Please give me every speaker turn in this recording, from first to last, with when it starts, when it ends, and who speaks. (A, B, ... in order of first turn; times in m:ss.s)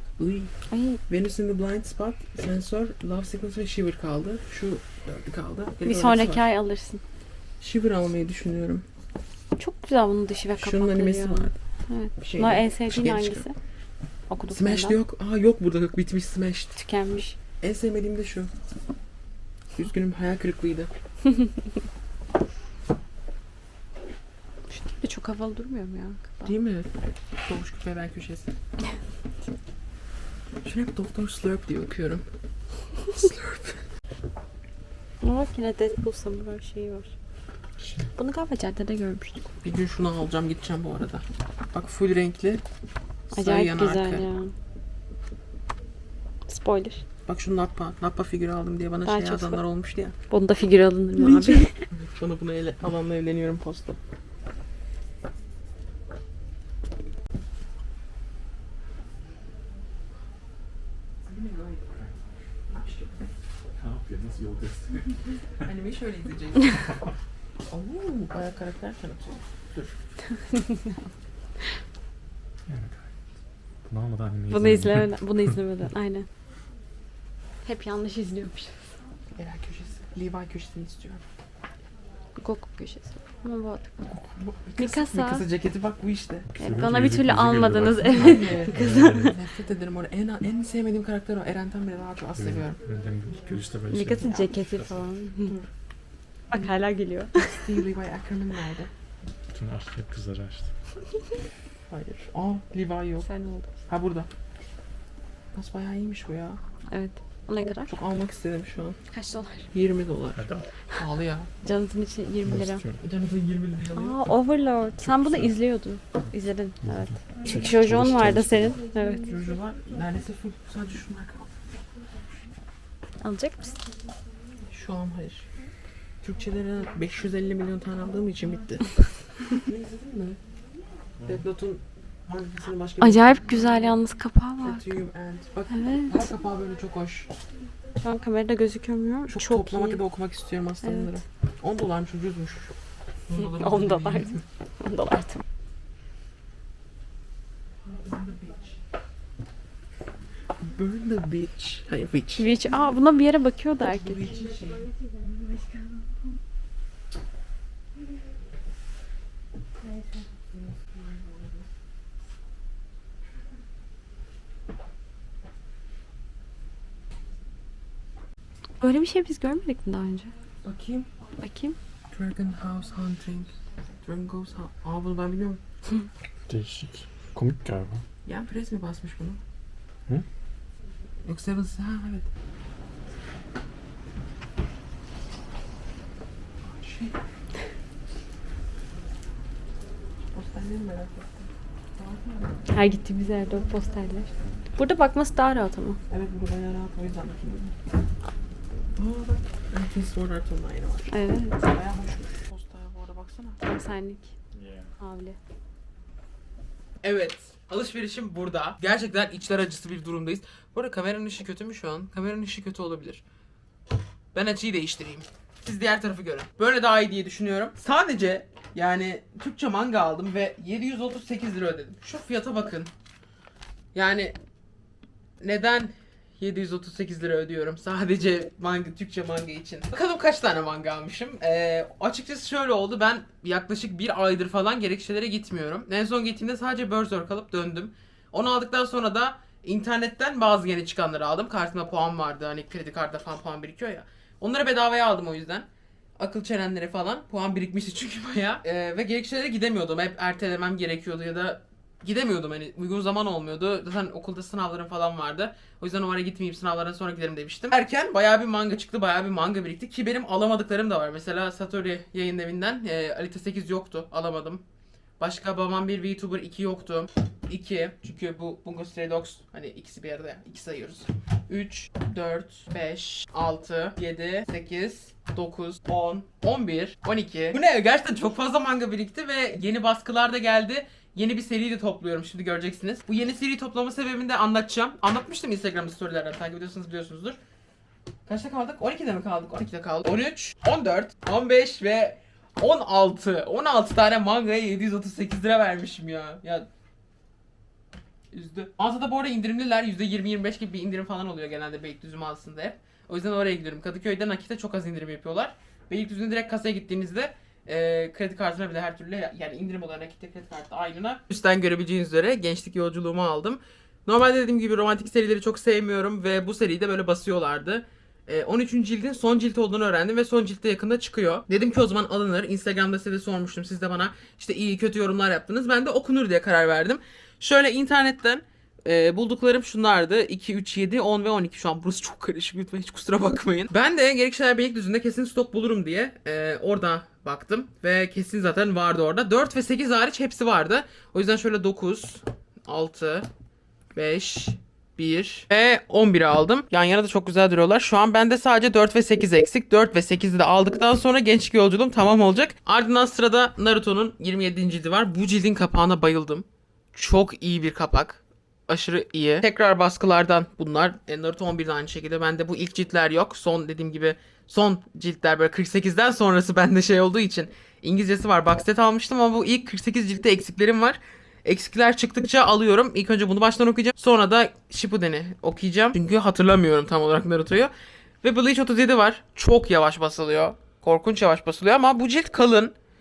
0:00.2-0:00.5 A
0:00.7-0:01.0 B
0:01.1-0:06.5 A
0:05.8-0:07.0 B
0:07.6-0:08.8 A
0:09.6-0:13.5 B
0:10.6-0:11.5 A
0:12.2-0:13.5 A
0:14.3-0:15.0 B
0:14.5-0:16.7 A
0:16.8-0:17.4 B
0:17.6-0:18.5 A
0:19.7-0:20.9 A
0:24.7-0:26.5 B
0:26.4-0:26.9 A
0:27.4-0:28.5 A
0:30.6-0:32.2 A
0:33.1-0:33.8 A
0:35.2-0:37.1 B
0:37.8-0:38.1 C
0:38.2-0:39.4 B
0:39.6-0:42.6 A
0:43.3-0:44.3 A
0:43.3-0:44.5 B
0:46.5-0:47.0 B
0:47.2-0:50.1 A
0:49.0-0:49.6 B
0:50.3-0:51.8 B
0:51.2-0:54.0 A
1:01.3-1:01.9 A
1:02.7-1:03.2 A
1:03.7-1:05.2 C
1:05.6-1:06.9 A
1:07.7-1:10.0 A
1:10.5-1:11.0 B
1:12.7-1:13.1 C
1:13.9-1:15.2 C
1:14.5-1:16.2 B
1:17.6-1:18.8 B
1:19.4-1:21.2 A
1:22.4-1:23.9 B
1:24.2-1:26.5 A
1:24.8-1:25.4 B
1:26.5-1:29.4 C
1:26.6-1:29.4 B
1:28.1-1:32.8 A
1:32.4-1:35.1 C
1:33.9-1:35.5 B
1:36.5-1:37.7 B
1:37.5-1:38.9 A
1:39.5-1:40.7 C
1:41.9-1:43.3 A
1:43.2-1:43.7 B
1:43.9-1:44.3 A
1:45.5-1:46.6 A
1:46.9-1:47.9 B
1:47.9-1:49.0 A
1:49.1-1:49.7 B
1:49.7-1:50.4 A
1:50.4-1:50.6 C
1:51.0-1:51.5 A
1:51.6-1:52.8 B
1:52.4-1:53.0 C
1:53.0-1:54.2 A
1:53.9-1:59.3 B
1:55.0-1:55.5 C
1:56.8-1:58.8 C
1:59.2-2:01.5 A
2:03.2-2:03.8 B
2:04.7-2:05.5 A
2:06.2-2:08.9 A
2:09.5-2:10.4 A
2:11.2-2:14.0 A
2:13.0-2:14.9 B
2:14.6-2:17.3 A
2:15.7-2:16.2 B
2:18.0-2:20.0 B
2:19.3-2:22.7 A
2:20.8-2:21.1 B
2:23.3-2:24.4 A
2:23.4-2:25.4 B
2:27.8-2:28.7 A
2:30.6-2:32.5 A
2:32.4-2:36.1 B
2:33.8-2:34.9 A
2:40.5-2:41.7 A
2:48.8-2:50.3 B
2:50.6-2:51.1 A
2:51.4-2:51.8 B
2:52.1-2:55.6 A
2:56.5-2:58.0 C
2:58.2-2:59.4 A
3:01.2-3:02.3 A
3:06.6-3:07.2 A
3:10.3-3:12.7 A
3:12.7-3:16.0 B
3:16.1-3:17.7 A
3:19.0-3:23.6 A
3:21.1-3:21.6 B
3:23.6-3:24.3 B
3:24.5-3:24.9 C
3:25.0-3:25.4 B
3:27.0-3:33.2 A
3:34.3-3:42.9 A
3:43.9-3:44.4 A
3:45.4-4:24.6 A
4:25.2-4:47.4 A
4:48.2-4:56.7 A
4:58.3-5:43.3 A
5:43.9-6:17.7 A
6:18.2-6:22.7 A